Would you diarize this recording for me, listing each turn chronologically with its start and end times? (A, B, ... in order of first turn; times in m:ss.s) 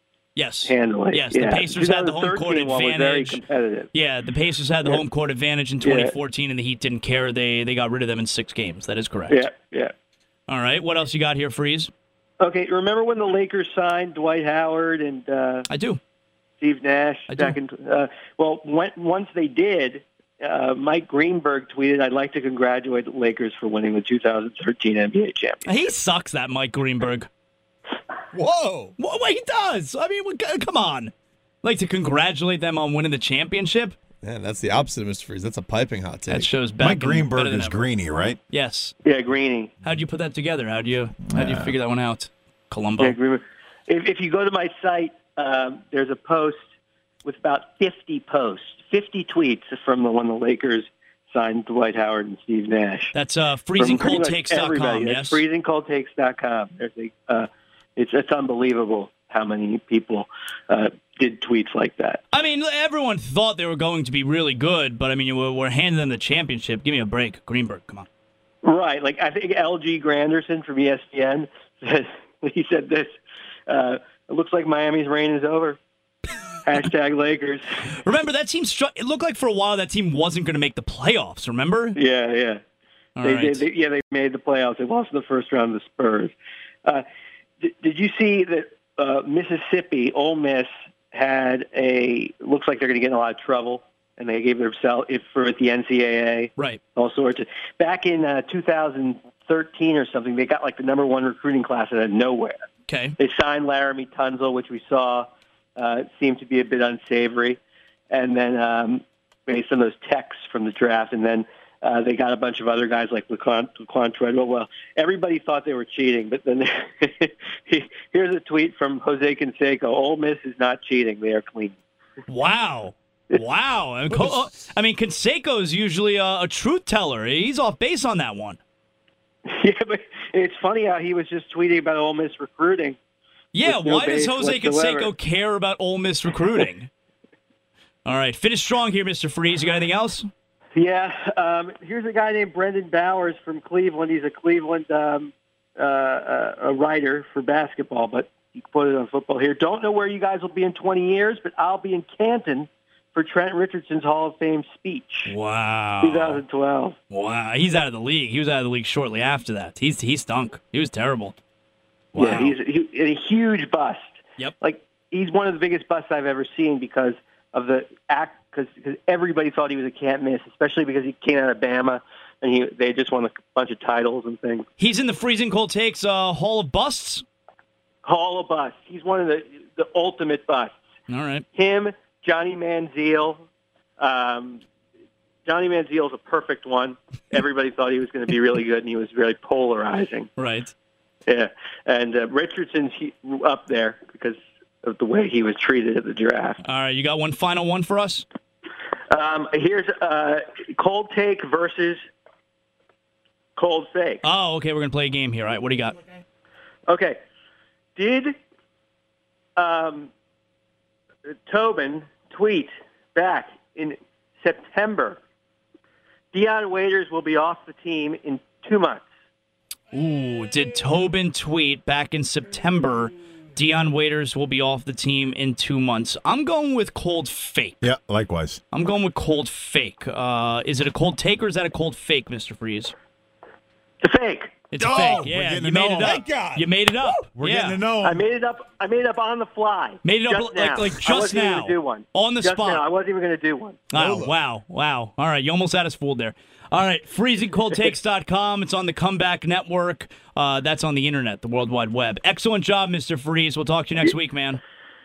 0:00.4-0:03.4 A
0:00.6-0:03.9 B
0:03.9-0:09.4 A
0:05.8-0:06.1 B
0:09.3-0:09.9 B
0:10.5-0:11.9 A
0:12.4-0:15.7 B
0:15.7-0:16.0 A
0:16.6-0:25.7 B
0:17.3-0:17.6 A
0:25.7-0:27.3 A
0:28.3-0:28.9 C
0:29.0-0:34.0 A
0:34.2-0:36.5 C
0:36.3-0:37.9 A
0:36.8-0:38.4 D
0:38.5-0:38.9 A
0:39.0-0:39.7 B
0:39.8-0:43.2 A
0:41.3-0:41.7 D
0:43.0-0:46.6 B
0:47.2-0:53.1 B
0:53.1-0:55.4 A
0:53.8-1:02.2 B
1:02.3-1:08.1 A
1:08.6-1:13.1 B
1:13.7-1:15.8 B
1:16.6-1:17.8 B
1:17.9-1:22.0 A
1:22.0-1:22.6 B
1:23.2-1:23.6 A
1:23.2-1:26.3 B
1:27.6-1:42.6 B
1:42.9-1:43.2 A
1:43.2-1:47.6 B
1:48.1-2:01.8 B
2:02.3-2:08.6 A
2:09.5-2:13.0 B
2:13.5-2:16.9 A
2:13.6-2:15.1 B
2:18.0-2:20.3 A
2:20.8-2:35.3 B
2:35.2-2:36.4 A
2:36.0-2:37.0 B
2:37.1-2:41.4 A
2:42.1-2:42.6 A
2:42.2-2:44.0 B
2:44.6-2:54.7 B
2:54.8-2:57.2 A
2:58.0-3:00.7 B
3:01.1-3:01.4 A
3:01.5-3:03.5 B
3:04.0-3:04.6 B
3:05.5-3:10.3 B
3:10.4-3:10.7 A
3:11.3-3:16.6 B
3:16.6-3:18.2 A
3:19.1-3:22.0 B
3:23.6-3:24.2 B
3:24.2-3:26.0 A
3:26.9-3:27.2 B
3:28.0-3:28.3 B
3:29.6-3:30.1 B
3:31.3-3:35.2 B
3:36.3-3:39.0 B
3:39.9-3:47.8 A
3:47.8-3:48.6 D
3:48.7-3:52.9 A
3:54.0-3:54.6 B
3:54.7-3:57.8 A
3:54.8-3:58.2 D
3:58.0-4:03.8 B
4:00.0-4:02.8 A
4:03.9-4:14.6 A
4:04.1-4:04.3 C